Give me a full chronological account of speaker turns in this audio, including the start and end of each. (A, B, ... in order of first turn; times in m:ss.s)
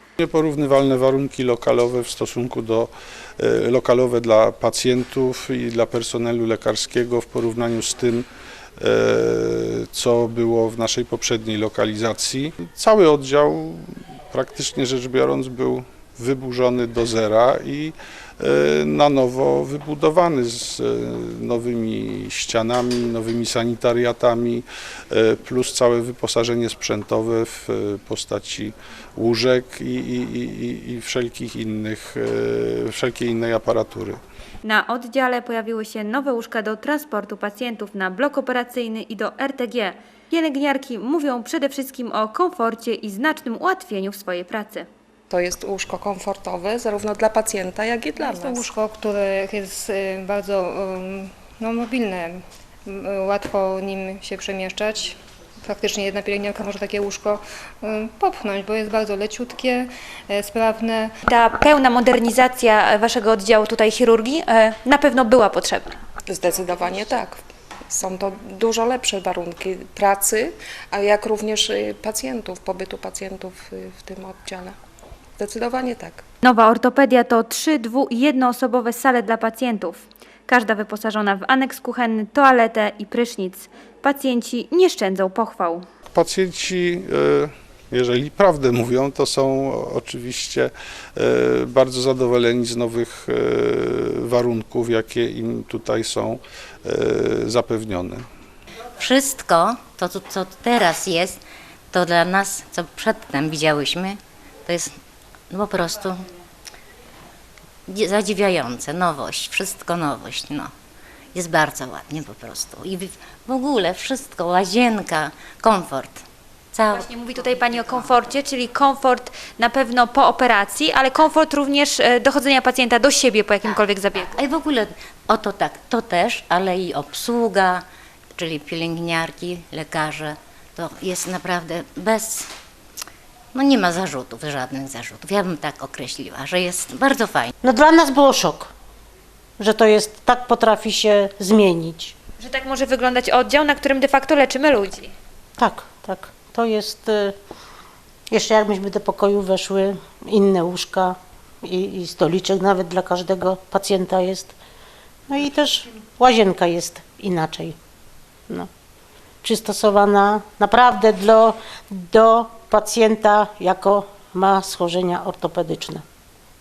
0:00.2-0:08.3 A
0:08.8-0:13.8 A
0:14.3-0:34.2 A
0:34.6-0:44.9 B
0:45.3-0:48.6 C
0:48.2-1:01.1 D
1:01.3-1:06.0 B
1:06.3-1:07.4 C
1:07.9-1:14.8 C
1:15.4-1:16.2 C
1:16.4-1:25.8 B
1:26.1-1:38.2 A
1:39.0-1:41.4 E
1:41.9-1:45.0 E
1:45.5-1:46.2 E
1:47.9-1:50.7 E
1:51.3-1:56.2 E
1:56.7-1:57.1 E
1:56.9-2:04.3 B
2:04.3-2:07.8 E
2:08.4-2:12.5 E
2:13.5-2:17.5 E
2:17.6-2:18.7 F
2:19.6-2:22.1 F
2:22.4-2:25.1 B
2:25.6-2:27.3 F
2:28.3-2:34.6 F
2:35.3-2:37.8 F
2:39.4-2:46.0 F